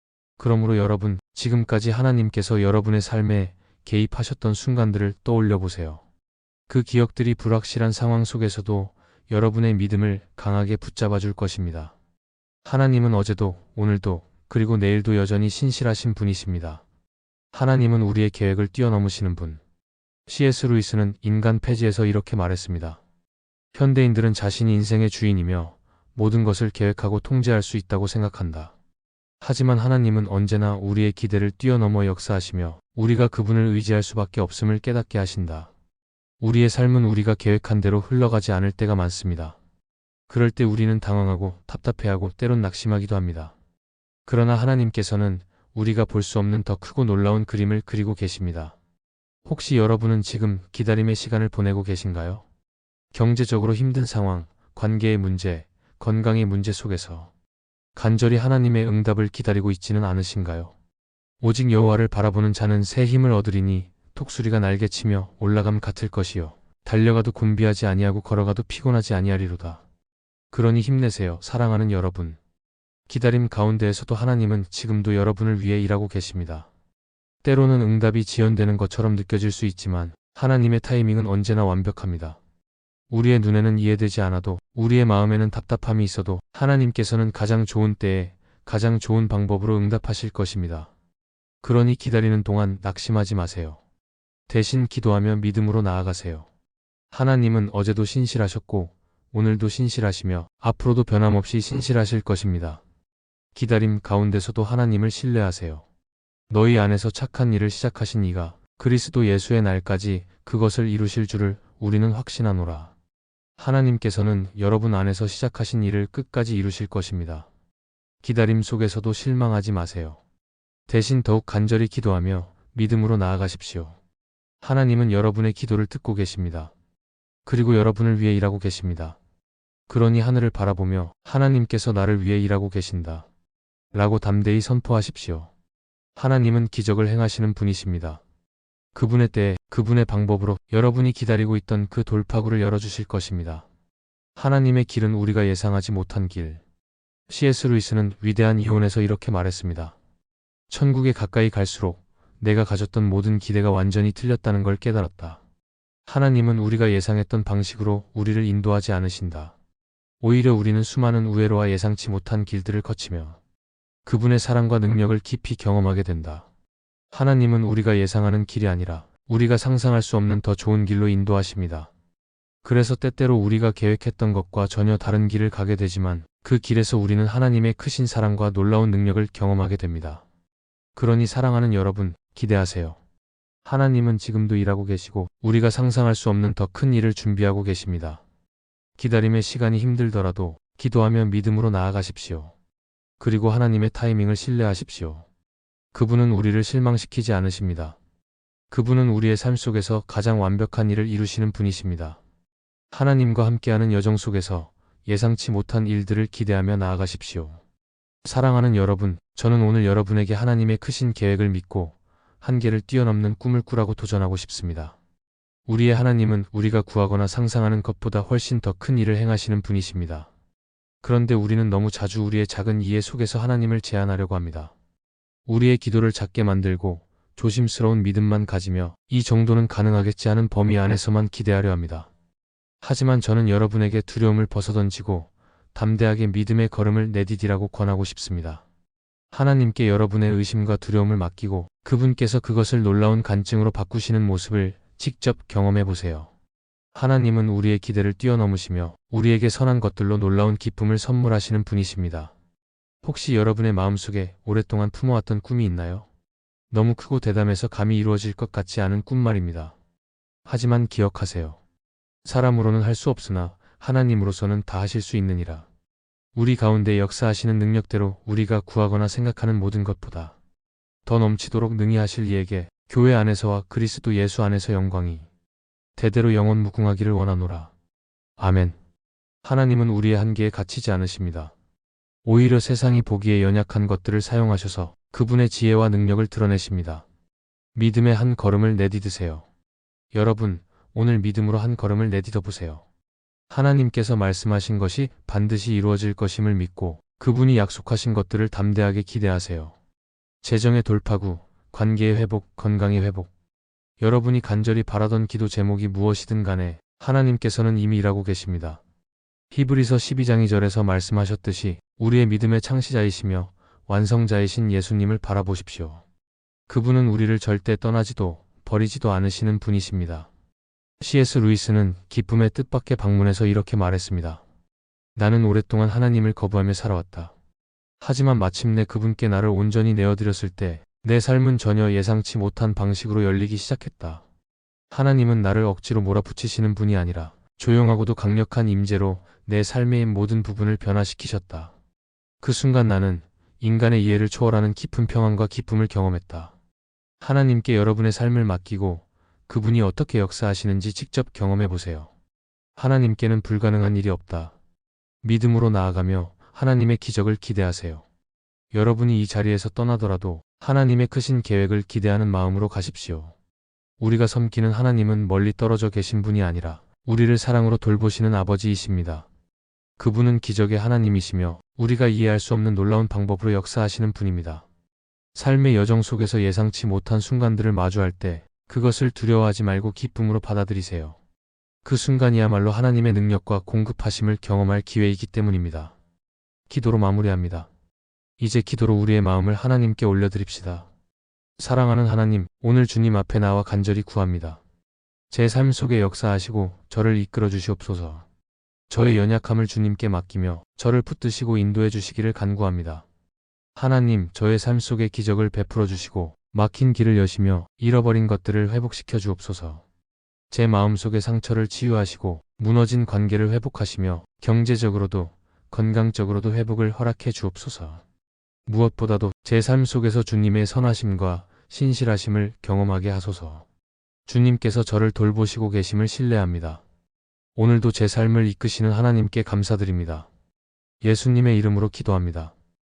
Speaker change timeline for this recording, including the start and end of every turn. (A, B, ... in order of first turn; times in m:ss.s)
0:00.4-0:06.0 A
0:06.7-0:11.9 A
0:12.6-0:16.8 A
0:17.5-0:19.6 A
0:20.3-0:23.0 A
0:23.7-0:28.7 A
0:29.4-0:35.7 A
0:36.4-0:39.6 A
0:40.3-0:43.5 A
0:44.2-0:48.8 A
0:49.4-0:52.4 A
0:53.1-0:57.3 A
0:57.9-1:00.7 A
1:01.4-1:09.8 A
1:10.5-1:12.4 A
1:13.1-1:16.7 A
1:17.4-1:22.4 A
1:23.1-1:30.9 A
1:31.6-1:33.8 A
1:34.5-1:36.5 A
1:37.1-1:42.8 A
1:43.5-1:45.8 A
1:46.5-1:52.9 A
1:53.6-1:57.5 A
1:58.2-2:00.2 A
2:00.9-2:04.0 A
2:04.6-2:06.7 A
2:07.4-2:09.2 A
2:09.9-2:13.3 A
2:13.9-2:15.5 A
2:16.2-2:18.2 A
2:18.9-2:23.6 A
2:24.4-2:26.6 A
2:27.3-2:30.0 A
2:30.7-2:35.4 A
2:36.1-2:39.5 A
2:40.2-2:43.4 A
2:44.0-2:46.4 A
2:47.1-2:51.9 A
2:52.6-3:00.2 A
3:00.9-3:03.0 A
3:03.6-3:08.2 A
3:09.0-3:12.5 A
3:13.2-3:15.2 A
3:15.9-3:18.0 A
3:18.7-3:22.2 A
3:22.9-3:27.6 A
3:28.2-3:35.0 A
3:35.7-3:40.3 A
3:41.0-3:44.7 A
3:45.5-3:52.1 A
3:52.8-3:58.6 A
3:59.3-4:06.3 A
4:06.9-4:12.3 A
4:13.0-4:16.1 A
4:16.7-4:19.8 A
4:20.4-4:21.6 A
4:22.2-4:25.6 A
4:26.4-4:30.4 A
4:31.0-4:35.2 A
4:36.0-4:37.7 A
4:38.4-4:38.8 A
4:39.4-4:41.5 A
4:42.2-4:47.0 A
4:47.8-4:49.4 A
4:50.1-4:52.8 A
4:53.5-4:59.8 A
5:00.4-5:03.3 A
5:04.0-5:08.8 A
5:09.5-5:16.0 A
5:16.7-5:20.3 A
5:21.0-5:24.4 A
5:25.2-5:27.3 A
5:28.0-5:34.2 A
5:34.9-5:41.7 A
5:42.4-5:46.5 A
5:47.2-5:52.1 A
5:52.8-5:54.5 A
5:55.2-5:58.0 A
5:58.7-6:03.3 A
6:04.0-6:09.3 A
6:10.0-6:14.6 A
6:15.4-6:21.2 A
6:21.8-6:25.9 A
6:26.7-6:27.7 A
6:28.4-6:30.9 A
6:31.6-6:34.6 A
6:35.3-6:38.2 A
6:38.9-6:43.0 A
6:43.8-6:49.8 A
6:50.5-6:58.0 A
6:58.7-7:03.6 A
7:04.3-7:06.8 A
7:07.6-7:10.3 A
7:11.0-7:12.5 A